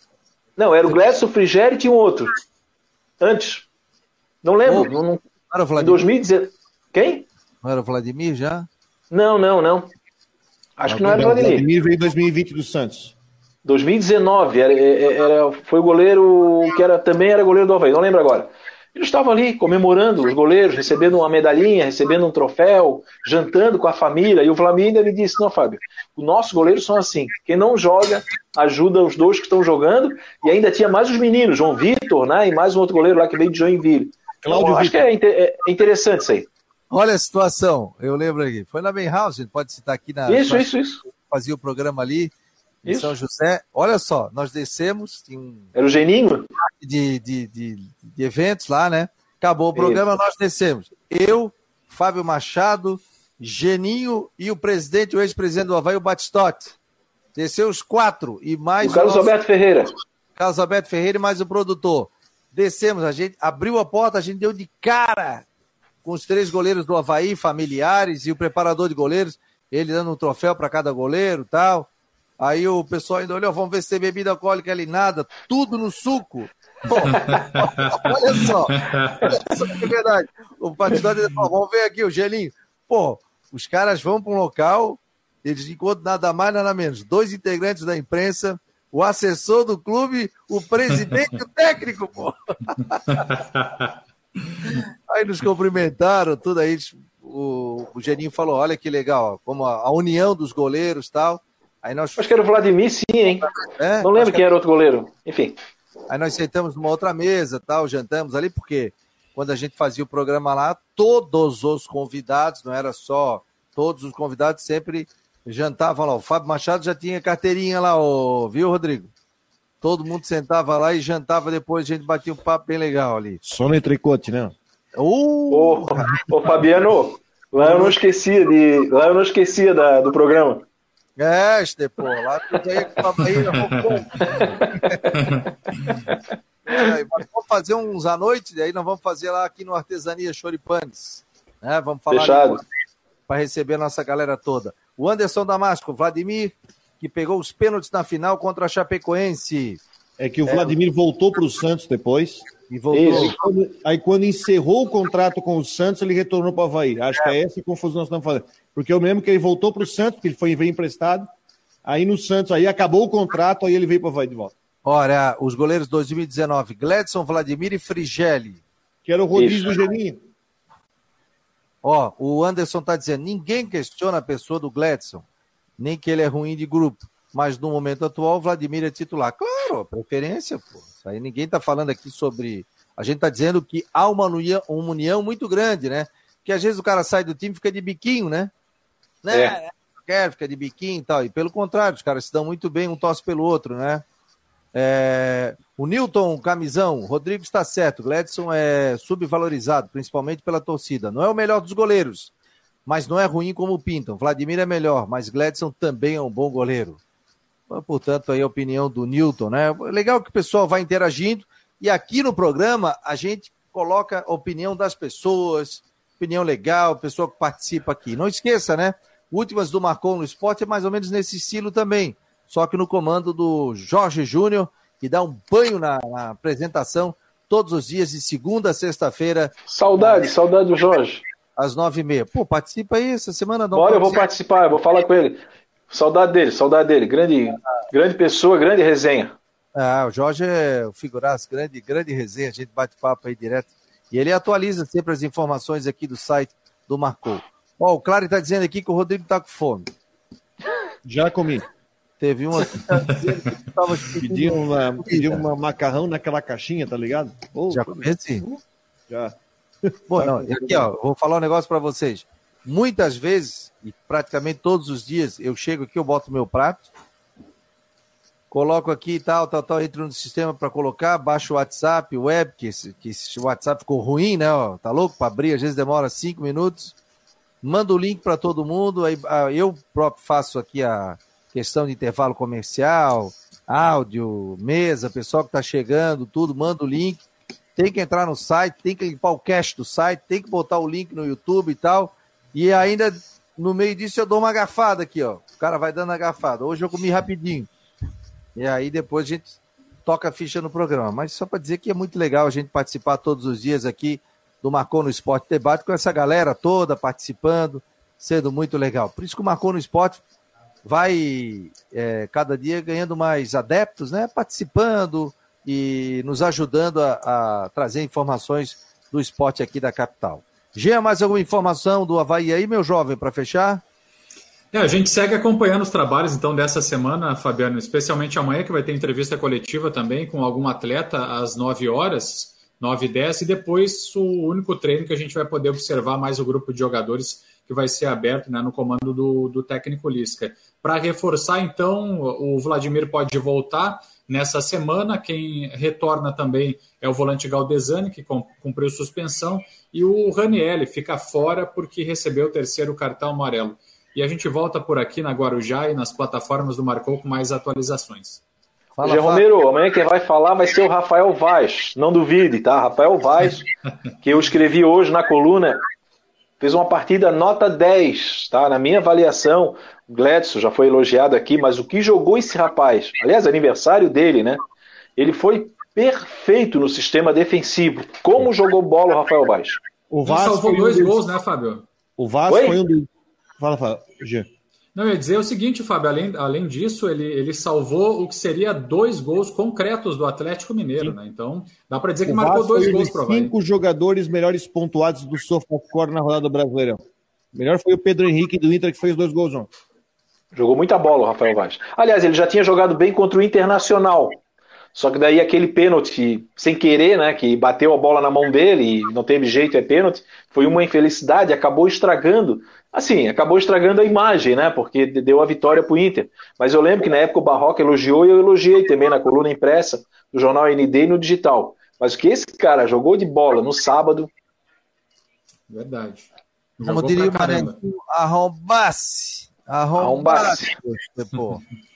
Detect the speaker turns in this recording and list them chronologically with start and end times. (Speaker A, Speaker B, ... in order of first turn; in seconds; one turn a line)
Speaker A: 0.6-2.3
Speaker A: 3.2-3.7
Speaker A: 4.4-5.2
Speaker B: 4.7-5.0
Speaker B: 5.5-6.0
Speaker A: 5.8-7.3
Speaker B: 7.6-8.7
Speaker A: 9.1-9.9
Speaker A: 10.8-11.7
Speaker B: 10.9-11.2
Speaker C: 11.0-13.1
Speaker A: 13.7-36.5
Speaker C: 34.4-35.0
Speaker B: 36.9-40.7
Speaker A: 40.3-41.0
Speaker B: 41.3-42.3
Speaker B: 42.8-45.7
Speaker A: 42.9-43.1
Speaker A: 45.8-46.5
Speaker B: 46.6-56.8
Speaker A: 49.8-50.0
Speaker B: 57.4-59.3
Speaker A: 58.8-59.9
Speaker B: 60.4-65.5
Speaker B: 66.0-93.3
Speaker D: 77.0-79.4
Speaker D: 93.2-93.9
Speaker B: 94.7-102.4
Speaker A: 102.2-103.5
Speaker B: 103.4-104.4
Speaker A: 104.0-105.6
Speaker B: 106.1-119.1
Speaker B: 119.8-123.4
Speaker C: 123.4-124.5
Speaker B: 125.0-126.6
Speaker A: 125.5-130.7
Speaker B: 127.6-128.0
Speaker B: 131.2-135.2
Speaker D: 133.4-134.0
Speaker A: 134.2-135.0
Speaker D: 135.1-136.0
Speaker B: 136.7-142.6
Speaker A: 142.1-142.6
Speaker B: 143.3-149.8
Speaker C: 150.2-152.5
Speaker B: 150.4-150.8
Speaker B: 152.7-153.4
Speaker A: 152.9-153.4
Speaker C: 153.1-161.3
Speaker C: 161.8-164.5
Speaker B: 164.8-168.6
Speaker C: 169.1-170.2
Speaker A: 169.3-169.8
Speaker B: 171.8-175.2
Speaker B: 175.8-188.5
Speaker B: 189.2-194.0
Speaker A: 189.3-189.6
Speaker B: 194.7-202.3
Speaker B: 202.9-207.0
Speaker B: 207.7-229.5
Speaker A: 229.7-231.2
Speaker B: 231.6-234.3
Speaker A: 233.7-239.3
Speaker B: 239.8-249.9
Speaker C: 251.1-251.7
Speaker B: 252.2-255.4
Speaker C: 254.2-260.9
Speaker B: 257.7-258.4
Speaker B: 260.1-266.9
Speaker B: 268.5-277.0
Speaker B: 277.6-287.2
Speaker B: 287.8-297.7
Speaker B: 298.6-310.2
Speaker B: 310.9-323.8
Speaker D: 324.7-358.4
Speaker B: 359.0-359.4
Speaker A: 359.0-363.7
Speaker A: 364.2-365.8
Speaker A: 366.6-374.6
Speaker A: 375.2-379.8
Speaker C: 380.1-381.3
Speaker D: 380.2-381.9
Speaker C: 382.2-384.5
Speaker A: 382.5-382.8
Speaker D: 384.9-393.5
Speaker C: 392.2-397.0
Speaker C: 397.5-399.7
Speaker A: 400.6-404.4
Speaker A: 404.9-424.3
Speaker D: 425.7-427.8
Speaker B: 426.8-431.6
Speaker A: 430.0-430.7